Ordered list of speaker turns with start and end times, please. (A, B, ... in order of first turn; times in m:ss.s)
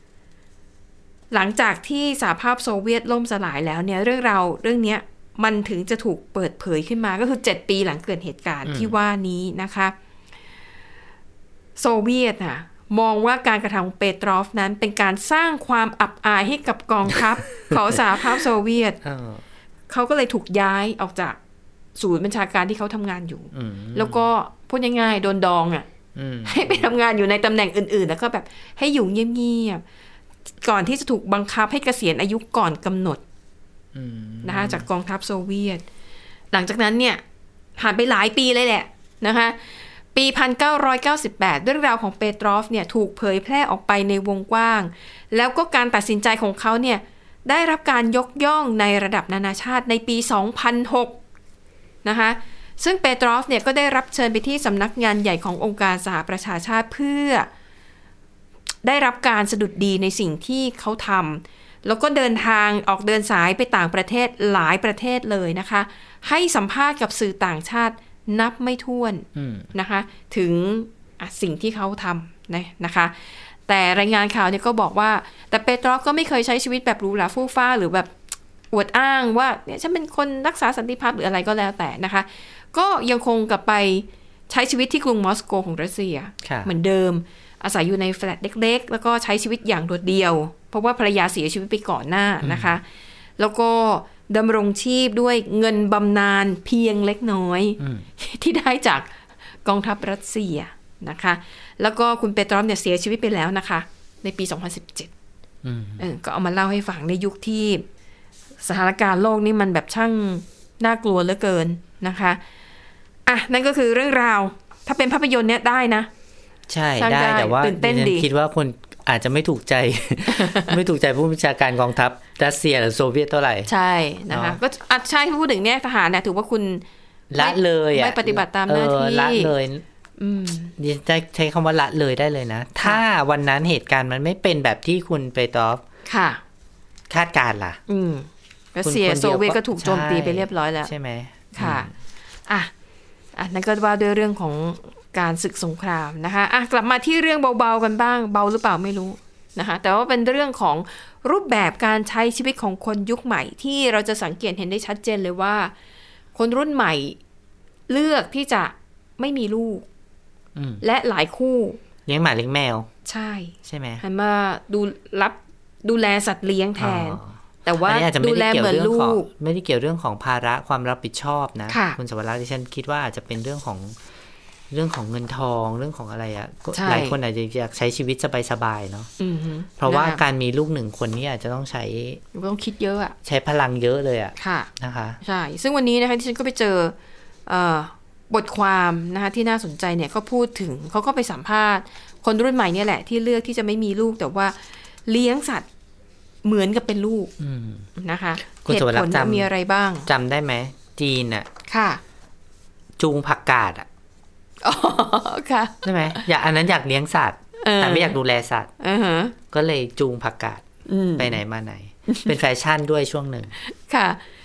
0:01.3-0:09.9 A
0:08.6-0:09.0 B
0:11.8-0:19.0 A
0:19.0-0:19.4 B
0:19.9-0:21.4 A
0:22.0-0:25.9 A
0:23.5-0:24.3 B
0:26.2-0:26.9 B
0:26.5-0:29.8 A
0:30.6-0:33.2 A
0:34.0-0:34.9 B
0:34.4-0:35.8 A
0:36.5-0:37.2 A
0:37.8-0:51.2 A
0:52.0-0:57.5 A
0:58.8-1:18.1 A
1:09.4-1:09.7 B
1:18.7-1:32.8 A
1:26.4-1:26.7 B
1:32.4-1:32.8 B
1:33.4-1:39.1 A
1:37.8-1:38.1 B
1:39.6-1:45.1 A
1:45.6-1:46.0 B
1:46.0-1:47.8 A
1:48.6-1:52.4 A
1:53.3-1:56.1 A
1:56.7-2:03.7 B
1:57.0-1:58.3 A
2:00.3-2:00.8 A
2:03.7-2:06.8 A
2:04.3-2:04.6 B
2:07.3-2:09.8 B
2:07.4-2:09.5 A
2:10.2-2:10.7 A
2:10.8-2:15.8 B
2:16.1-2:16.4 A
2:17.1-2:17.8 B
2:17.9-2:20.9 A
2:18.8-2:21.9 B
2:21.5-2:21.9 A
2:23.4-2:35.7 A
2:36.4-2:37.2 A
2:37.9-2:39.8 A
2:40.6-2:40.8 B
2:40.8-2:41.8 A
2:42.1-2:42.9 B
2:43.1-2:49.3 A
2:43.6-2:44.0 B
2:46.8-2:54.0 B
2:51.7-2:52.0 A
2:54.7-2:59.1 B
2:56.8-2:57.2 A
2:59.2-3:00.2 A
2:59.8-3:02.2 B
3:02.3-3:03.2 A
3:03.2-3:05.2 B
3:04.4-3:04.7 A
3:05.2-3:07.0 A
3:07.5-3:15.7 A
3:16.4-3:17.3 A
3:17.4-3:17.9 B
3:18.0-3:20.1 A
3:18.4-3:19.5 B
3:20.1-3:21.5 B
3:21.7-3:22.0 A
3:23.0-3:23.9 B
3:24.6-3:26.2 A
3:25.8-3:28.7 B
3:27.6-3:28.2 A
3:28.8-3:29.4 A
3:29.5-3:30.6 B
3:30.9-3:31.4 A
3:31.2-3:33.5 B
3:33.6-3:34.2 A